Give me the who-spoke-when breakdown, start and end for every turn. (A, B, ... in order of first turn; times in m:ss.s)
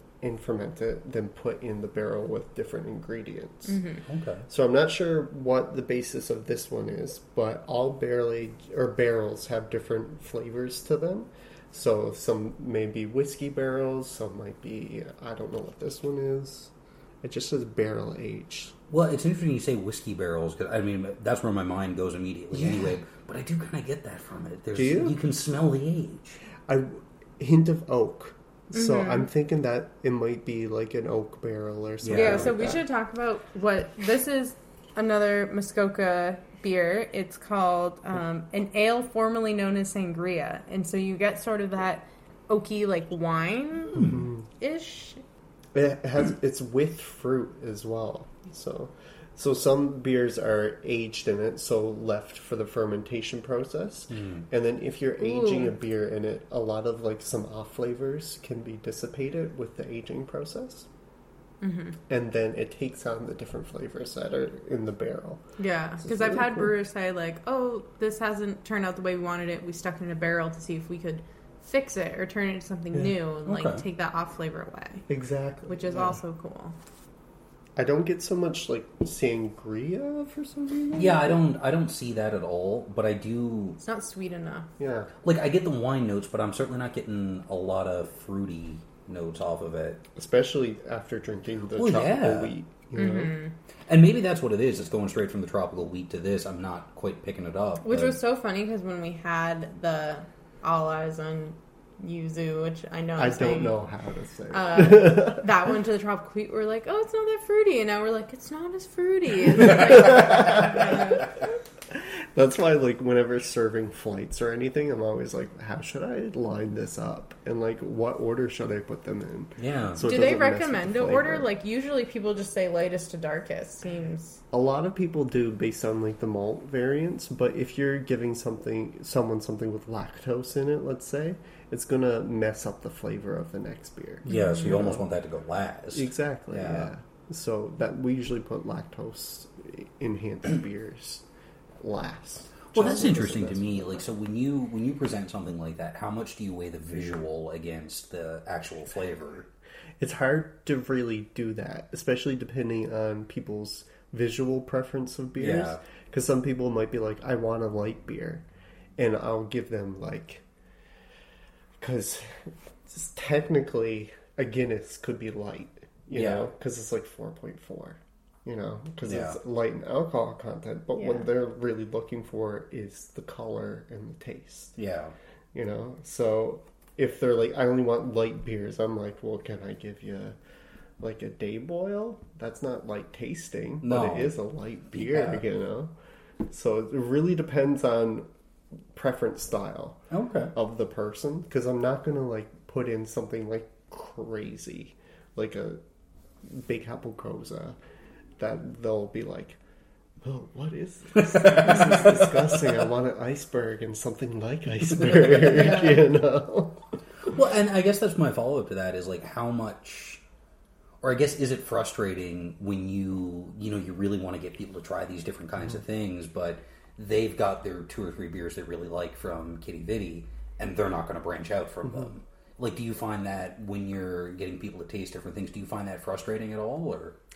0:00.2-0:03.8 A
0:04.0-0:04.4 B
0:04.5-0:18.7 A
0:18.9-0:26.4 B
0:22.5-0:22.8 A
0:24.7-0:25.2 A
0:26.6-0:32.8 A
0:28.7-0:29.3 C
0:32.0-0:32.6 B
0:32.1-0:45.2 C
0:45.7-1:00.9 A
0:54.1-0:54.4 B
0:55.2-0:55.7 C
1:01.6-1:02.0 C
1:02.1-1:05.4 A
1:05.6-1:15.0 C
1:06.0-1:06.7 A
1:13.4-1:13.8 B
1:15.1-1:16.2 A
1:15.7-1:16.7 C
1:17.8-1:21.4 A
1:21.0-1:23.8 B
1:23.8-1:24.7 C
1:24.8-1:25.1 A
1:25.2-1:30.0 B
1:30.1-1:33.3 A
1:31.8-1:32.5 B
1:32.9-1:33.5 C
1:33.9-1:38.2 B
1:37.8-1:43.8 C
1:43.2-1:45.5 A
1:44.5-1:51.3 C
1:49.7-1:51.2 A
1:51.9-2:01.5 A
1:59.6-2:00.1 B
2:00.0-2:04.4 C
2:04.5-2:15.0 A
2:14.2-2:16.9 B
2:14.3-2:14.8 C
2:15.9-2:21.2 A
2:21.8-2:24.0 A
2:22.7-2:29.5 B
2:30.0-2:38.4 A
2:35.4-2:35.8 B
2:39.0-2:40.4 A
2:41.8-2:54.8 A
2:46.1-2:46.4 B
2:49.0-2:49.4 B
2:51.0-2:51.2 C
2:54.8-2:55.1 B
2:55.5-3:00.4 A
3:01.0-3:05.9 A
3:03.8-3:04.3 B
3:04.9-3:05.4 B
3:06.5-3:08.3 A
3:08.9-3:15.8 A
3:10.1-3:10.5 B
3:16.4-3:17.8 A
3:18.4-3:19.6 A
3:20.2-3:26.8 A
3:21.2-3:22.5 B
3:25.1-3:25.7 B
3:27.2-3:30.2 B
3:31.0-3:47.2 B